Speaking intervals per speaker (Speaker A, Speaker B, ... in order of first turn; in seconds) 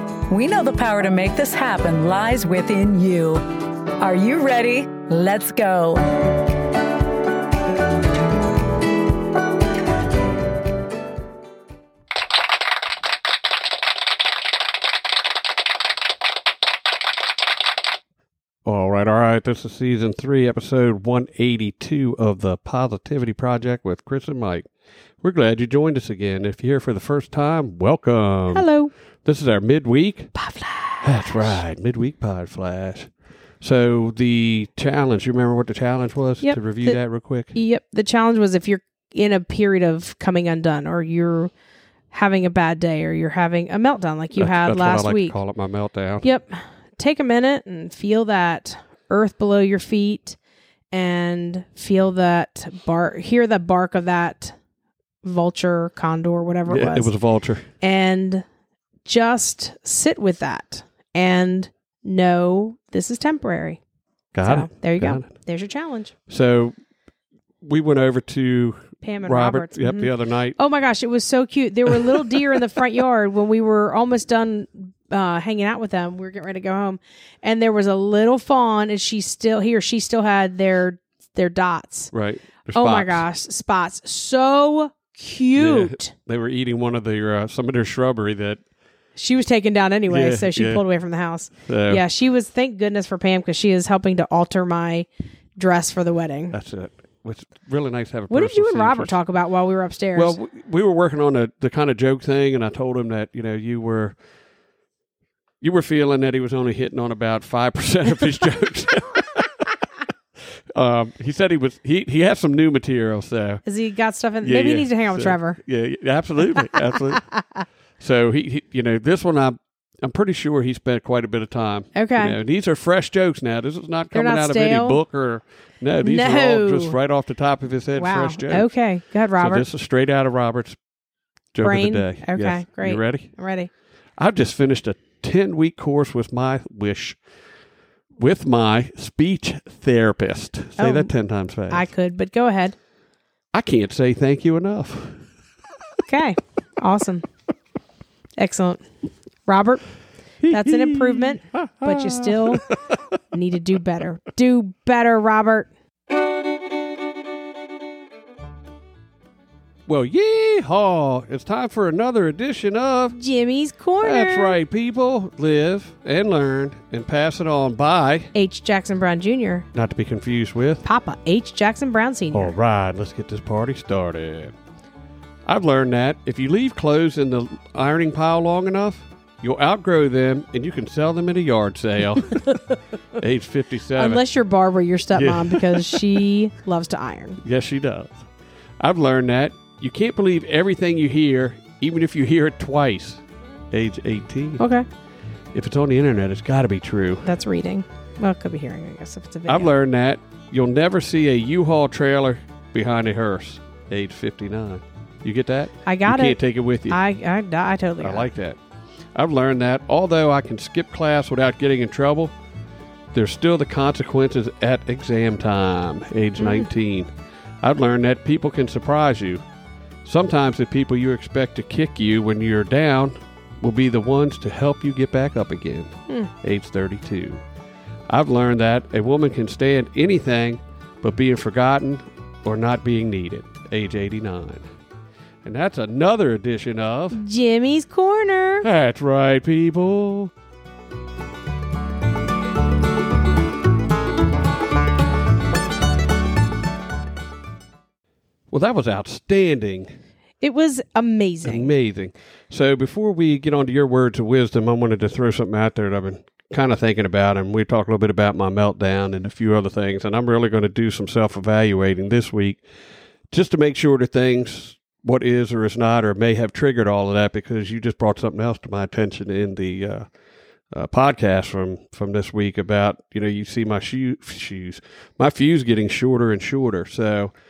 Speaker A: 0.3-3.5, 4.0-6.1
Speaker B: 18.7-24.6, 25.2-28.7, 29.2-30.3, 31.0-33.1, 33.6-37.6, 44.4-46.3, 56.7-57.7, 64.3-65.3, 66.3-66.8, 67.6-70.6, 82.1-83.3, 85.6-88.6, 90.1-90.8, 91.6-92.0, 96.5-99.2, 100.2-104.2, 105.6-109.7, 110.8-113.6, 114.4-117.2, 118.0-128.7, 129.4-130.8, 131.5-133.3, 134.2-137.2, 138.2-141.9, 143.5-145.2, 150.4-152.8, 159.9-163.2, 164.0-168.3, 169.7-170.8, 172.3-174.5, 175.5-182.4, 183.2-184.2, 185.1-186.2, 187.4-188.3, 188.8-194.6, 195.5-197.3, 199.5-207.0, 208.0-208.6, 209.2-212.3, 213.1-217.1, 217.6-219.4, 220.1-227.4, 228.1-234.7, 235.4-237.2, 238.6-240.3, 248.5-249.9, 251.4-262.6, 263.3-270.1, 270.7-277.3
Speaker C: 28.5-28.9, 30.4-31.6, 36.4-37.0, 37.5-41.5, 42.1-45.4, 46.2-50.4, 50.9-54.6, 55.2-57.1, 57.8-58.5, 59.0-63.8, 64.4-66.1, 69.0-82.1, 82.7-86.1, 89.2-96.5, 98.3-100.4, 113.7-115.6, 116.6-117.7, 122.0-122.4, 124.1-125.0, 126.0-127.0, 128.0-129.7, 131.6-133.7, 140.8-141.1, 141.7-142.8, 146.1-147.2, 148.4-148.8, 149.5-149.8, 150.4-152.7, 153.3-155.7, 163.1-164.6, 168.3-169.7, 170.8-172.6, 183.9-187.4, 194.6-194.9, 197.2-199.7, 205.8-208.3, 216.4-216.7, 237.1-238.7, 250.4-251.7